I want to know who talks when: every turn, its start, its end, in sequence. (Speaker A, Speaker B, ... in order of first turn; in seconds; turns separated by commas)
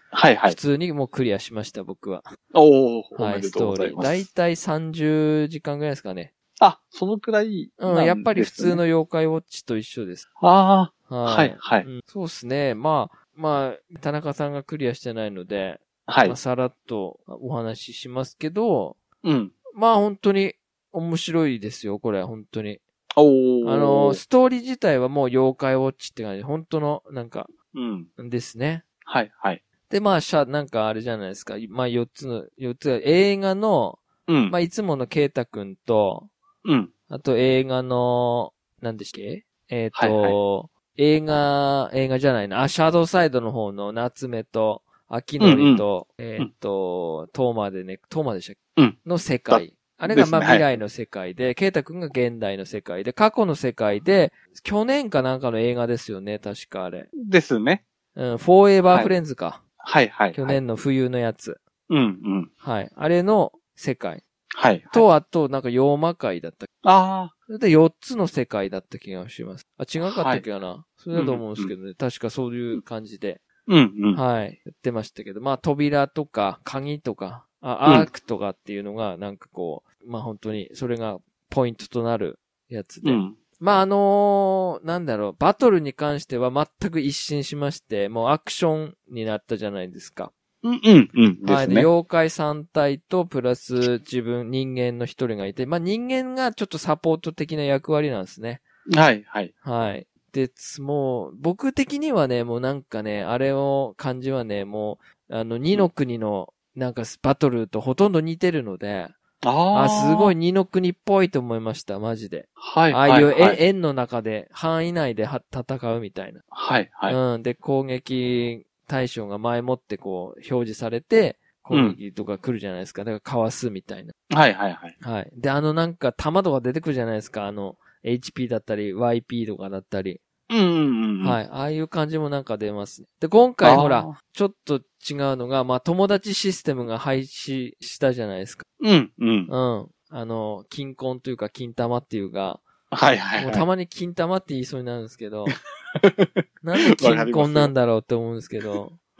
Speaker A: 0.1-0.6, Speaker B: 0.5-2.2, Speaker A: 2.5-4.3, Speaker B: 3.1-6.3, Speaker A: 6.6-8.8, Speaker B: 7.8-10.2, Speaker A: 10.4-11.9, Speaker B: 11.1-19.0, Speaker A: 16.1-16.4, Speaker A: 19.2-19.6, Speaker B: 19.7-22.8, Speaker A: 23.1-24.2, Speaker B: 23.6-27.5, Speaker A: 27.7-28.1, Speaker B: 28.2-28.8, Speaker A: 29.1-29.6, Speaker B: 29.9-36.3, Speaker A: 34.3-34.5, Speaker A: 36.6-36.9, Speaker B: 37.1-57.1, Speaker A: 39.9-40.4, Speaker A: 45.4-45.9, Speaker A: 49.5-50.7, Speaker A: 57.2-57.8, Speaker B: 58.1-59.6, Speaker A: 58.9-59.2, Speaker A: 59.8-60.6, Speaker B: 60.3-61.6, Speaker A: 61.9-62.5, Speaker B: 62.6-64.2, Speaker A: 64.5-65.1, Speaker B: 64.9-66.7, Speaker A: 66.8-67.3, Speaker B: 67.5-73.4, Speaker A: 70.0-70.4, Speaker A: 71.1-71.7, Speaker A: 73.7-74.2, Speaker B: 74.1-90.3, Speaker A: 83.0-83.4, Speaker A: 90.6-91.9, Speaker B: 91.4-98.6, Speaker A: 98.9-99.5, Speaker B: 99.6-109.1, Speaker A: 109.4-110.3, Speaker B: 109.7-116.4, Speaker A: 112.6-113.6, Speaker A: 116.5-117.2, Speaker B: 117.1-124.1, Speaker A: 121.7-122.0, Speaker A: 124.3-124.9, Speaker B: 125.0-130.2, Speaker A: 130.5-131.4, Speaker B: 131.2-138.6, Speaker A: 133.6-134.1, Speaker A: 138.8-139.5, Speaker B: 139.5-142.6, Speaker A: 142.9-143.7, Speaker B: 143.4-145.6, Speaker A: 146.0-147.7, Speaker B: 146.6-149.0